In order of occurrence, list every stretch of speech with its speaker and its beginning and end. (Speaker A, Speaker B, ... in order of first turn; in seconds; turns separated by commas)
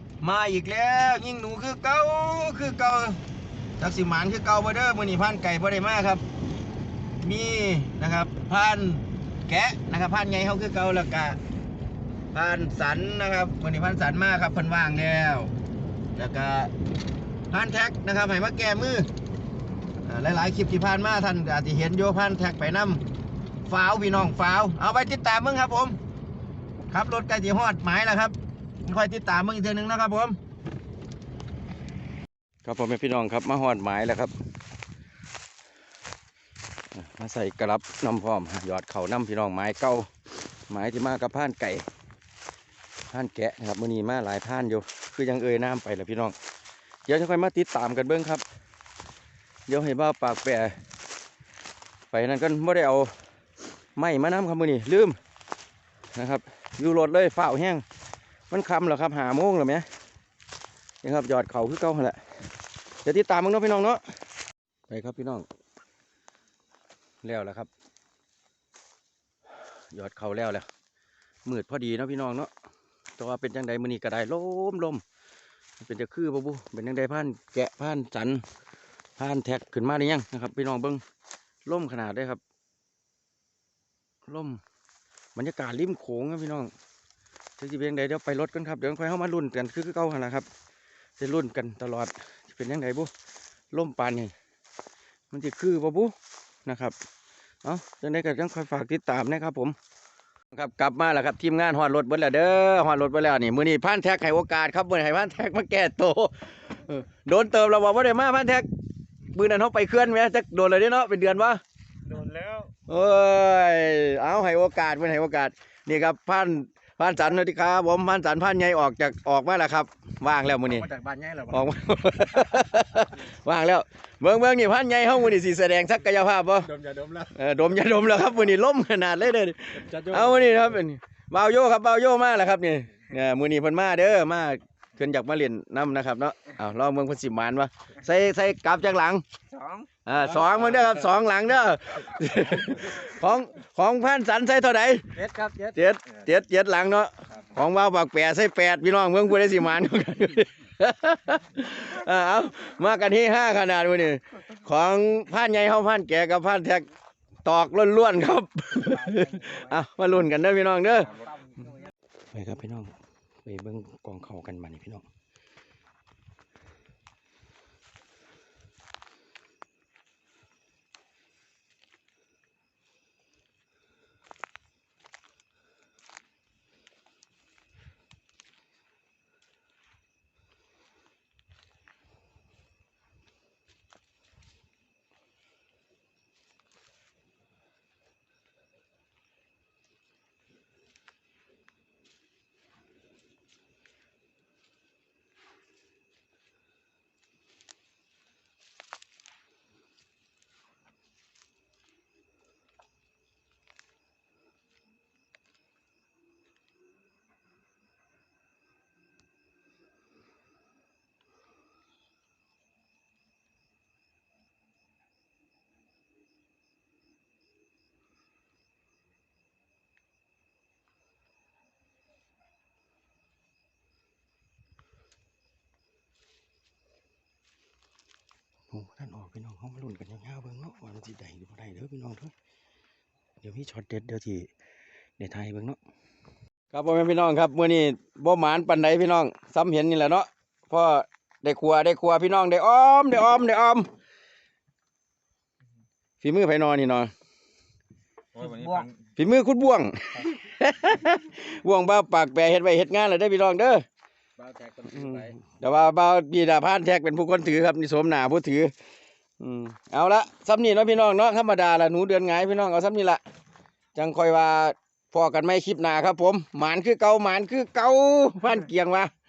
Speaker A: 0.2-3.2, Speaker A: 3.8-6.2, Speaker A: 7.2-11.4, Speaker A: 12.3-15.5, Speaker A: 16.1-16.7, Speaker A: 17.5-19.1, Speaker A: 20.1-23.0, Speaker A: 23.6-26.0, Speaker A: 26.9-30.4, Speaker A: 32.6-34.3, Speaker A: 36.9-40.1, Speaker A: 40.7-41.9, Speaker A: 43.1-46.3, Speaker A: 47.0-48.4, Speaker A: 49.7-50.8, Speaker A: 52.1-53.1, Speaker A: 54.0-55.2, Speaker A: 56.1-57.8, Speaker A: 58.5-59.9, Speaker A: 61.0-62.2, Speaker A: 63.0-64.0, Speaker A: 64.9-65.4, Speaker A: 67.2-67.7, Speaker A: 69.9-70.7, Speaker A: 71.5-72.5, Speaker A: 73.2-75.0, Speaker A: 75.8-78.4, Speaker A: 79.2-81.0, Speaker A: 81.7-82.4, Speaker A: 84.3-84.6, Speaker A: 85.3-86.7, Speaker A: 87.6-90.5, Speaker A: 91.2-93.1, Speaker A: 93.7-94.3, Speaker A: 95.3-96.1, Speaker A: 96.6-97.0, Speaker A: 97.6-99.8, Speaker A: 100.5-108.7, Speaker A: 109.3-111.6, Speaker B: 112.1-112.7, Speaker A: 112.9-120.9, Speaker B: 120.7-121.6, Speaker A: 121.5-139.2, Speaker B: 126.7-127.3, Speaker B: 129.8-130.3, Speaker B: 139.5-139.9, Speaker A: 140.1-145.1, Speaker B: 145.1-145.8, Speaker A: 145.7-156.8, Speaker A: 157.4-161.1, Speaker B: 159.1-159.5, Speaker B: 161.2-161.7, Speaker A: 162.3-162.9, Speaker A: 163.4-165.0, Speaker A: 228.7-232.3, Speaker A: 233.4-234.5, Speaker A: 235.2-235.8, Speaker A: 236.7-243.9, Speaker A: 246.2-247.1, Speaker B: 248.3-248.9, Speaker A: 249.2-253.8, Speaker B: 254.4-255.3, Speaker A: 254.9-258.7, Speaker A: 259.4-263.2, Speaker A: 263.9-269.1